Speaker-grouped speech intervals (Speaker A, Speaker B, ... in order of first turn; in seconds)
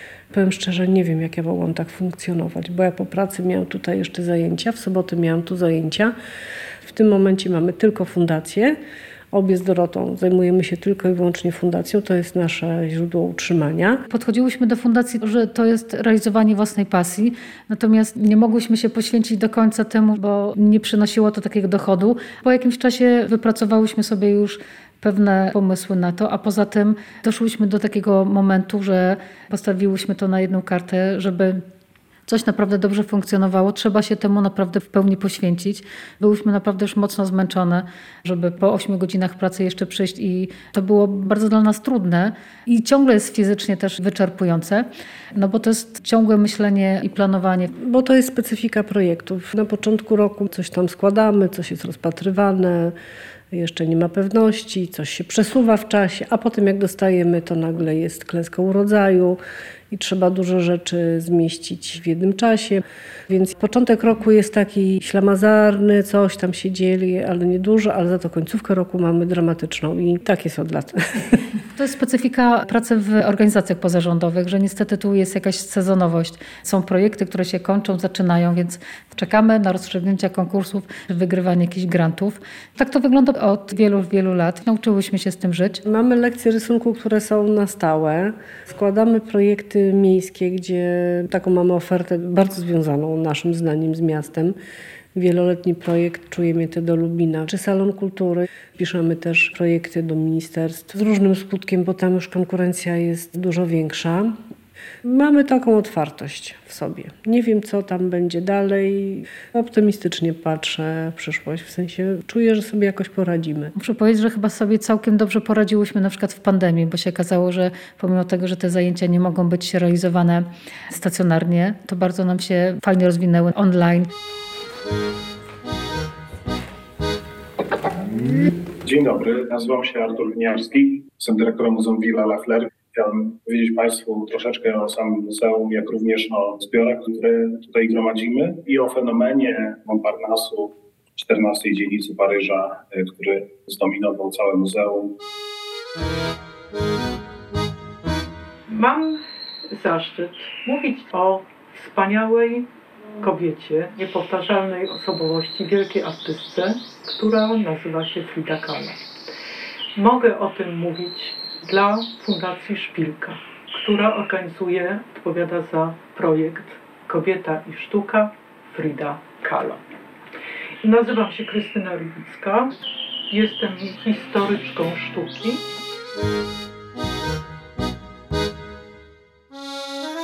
Speaker A: 0.3-6.1, 6.8-8.8, 9.3-14.0, 47.7-52.9, 53.5-59.4, 59.9-71.4, 85.8-94.5, 95.1-104.4, 105.0-113.7
Speaker B: 14.1-31.6, 32.3-47.7, 71.8-85.8, 113.8-124.1
Speaker C: 128.8-145.1
Speaker D: 148.7-152.7, 153.2-159.0, 159.9-169.8, 170.8-172.7, 173.3-175.6